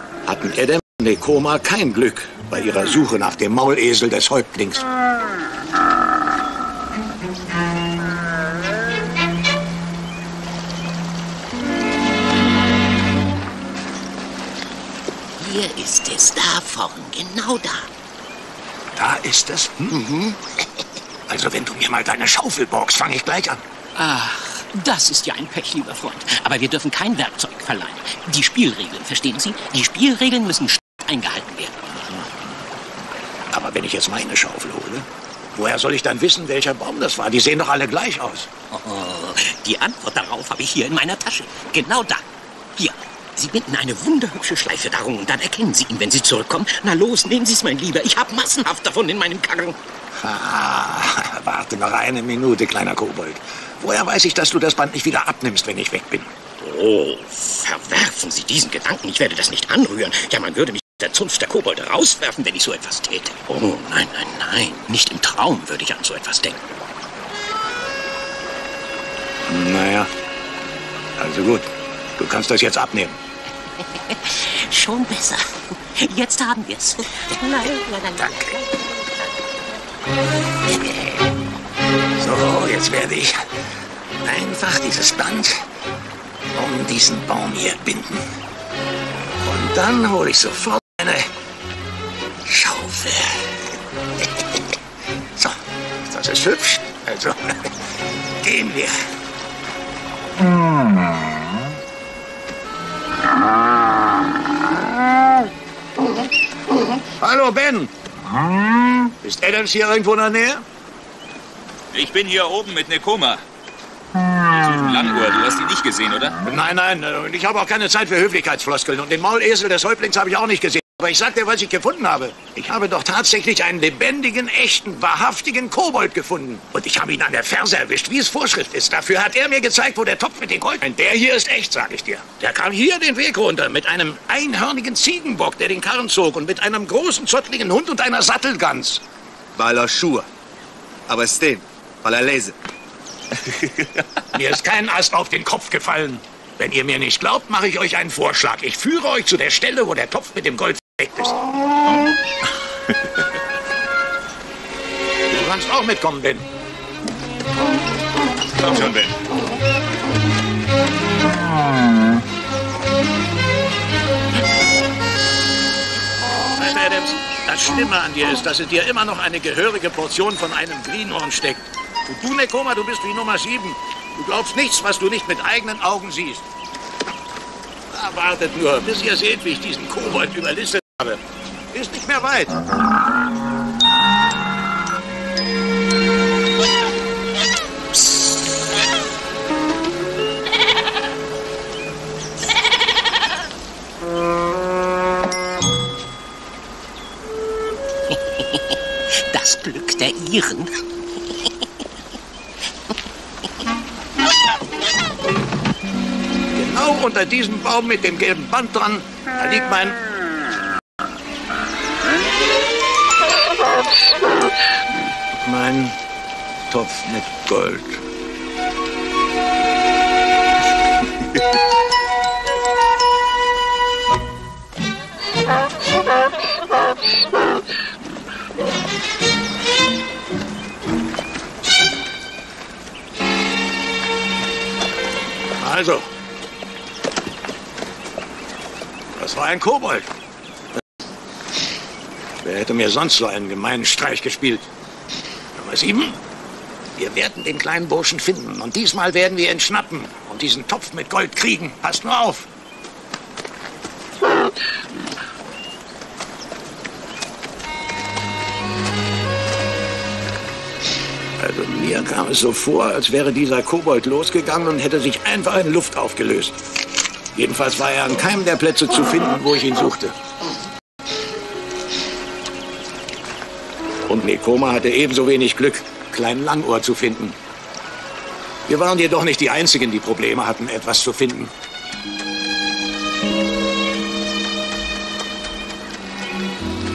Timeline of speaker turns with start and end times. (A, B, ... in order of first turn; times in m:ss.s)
0:00.2-0:04.8 A
0:15.4-0:17.9 B
0:19.0-0:20.0 A
0:19.9-0:20.6 B
0:21.3-0:23.6 A
0:24.0-0:31.8 B
0:32.0-0:32.3 A
0:33.5-0:38.5 A
0:38.7-0:42.2 B
0:42.8-0:49.8 B
0:50.2-0:56.3 A
0:56.6-1:06.6 B
1:09.5-1:10.1 A
1:11.2-1:13.2 A
1:13.8-1:19.3 B
1:18.2-1:18.5 A
1:22.2-1:23.4 A
1:24.2-1:25.6 A
1:26.5-1:28.2 A
1:29.4-1:31.3 A
1:32.4-1:33.6 A
1:35.4-1:37.6 A
1:38.4-1:39.0 A
1:47.2-1:47.9 A
1:49.2-1:50.6 A
1:51.9-1:53.4 C
1:54.5-1:56.4 C
1:56.5-2:19.0 A
2:19.6-2:20.3 D
2:21.1-2:22.6 D
2:24.3-2:31.4 A
2:35.3-2:36.4 A
2:38.6-2:39.1 A
2:46.6-2:56.4 A
2:57.9-3:02.6 A
3:19.2-3:20.8 B
3:26.5-3:30.0 A
3:35.3-3:36.0 A
3:36.7-3:38.0 A
3:55.6-3:56.0 A
3:59.2-4:00.1 A
4:02.4-4:04.7 A
4:05.6-4:06.2 A
4:07.0-4:12.5 A
4:21.4-4:26.6 A
4:27.3-4:30.1 A
4:34.1-4:37.4 A
4:38.7-4:41.5 A